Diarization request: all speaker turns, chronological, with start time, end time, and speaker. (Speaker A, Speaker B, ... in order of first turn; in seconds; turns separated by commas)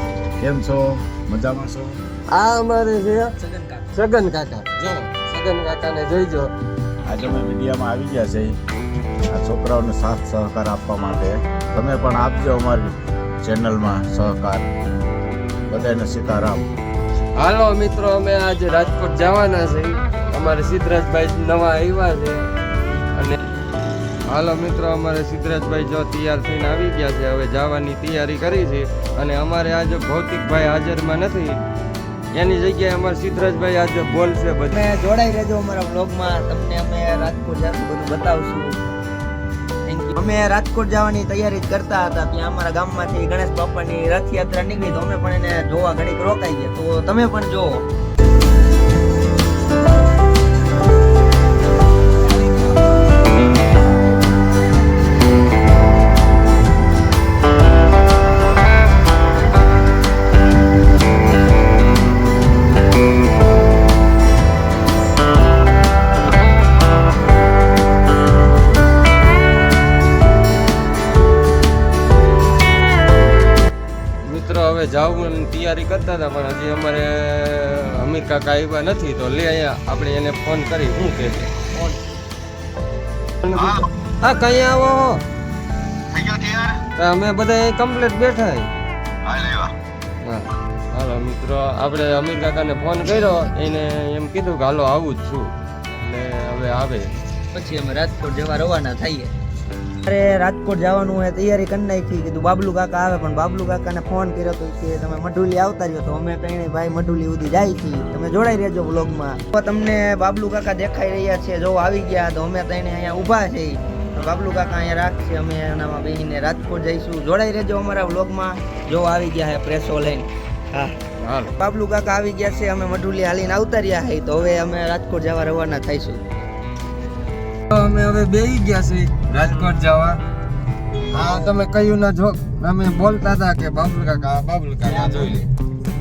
Speaker A: 0.4-2.0, Speaker B: 2.3-3.3, Speaker C: 3.4-3.9, Speaker B: 3.9-6.5, Speaker A: 7.0-8.6, Speaker A: 9.3-14.7, Speaker A: 15.7-16.6, Speaker B: 17.4-22.5, Speaker B: 24.3-31.6, Speaker B: 32.3-34.8, Speaker C: 34.7-38.8, Speaker C: 39.9-47.8, Speaker B: 74.2-82.0, Speaker B: 83.4-85.2, Speaker A: 83.5-83.8, Speaker A: 86.2-86.7, Speaker B: 87.0-88.7, Speaker A: 89.3-89.6, Speaker B: 90.2-97.1, Speaker C: 97.5-99.3, Speaker C: 100.0-121.0, Speaker B: 121.2-121.5, Speaker C: 121.5-126.2, Speaker B: 127.7-130.2, Speaker B: 131.1-135.5, Speaker C: 134.8-135.5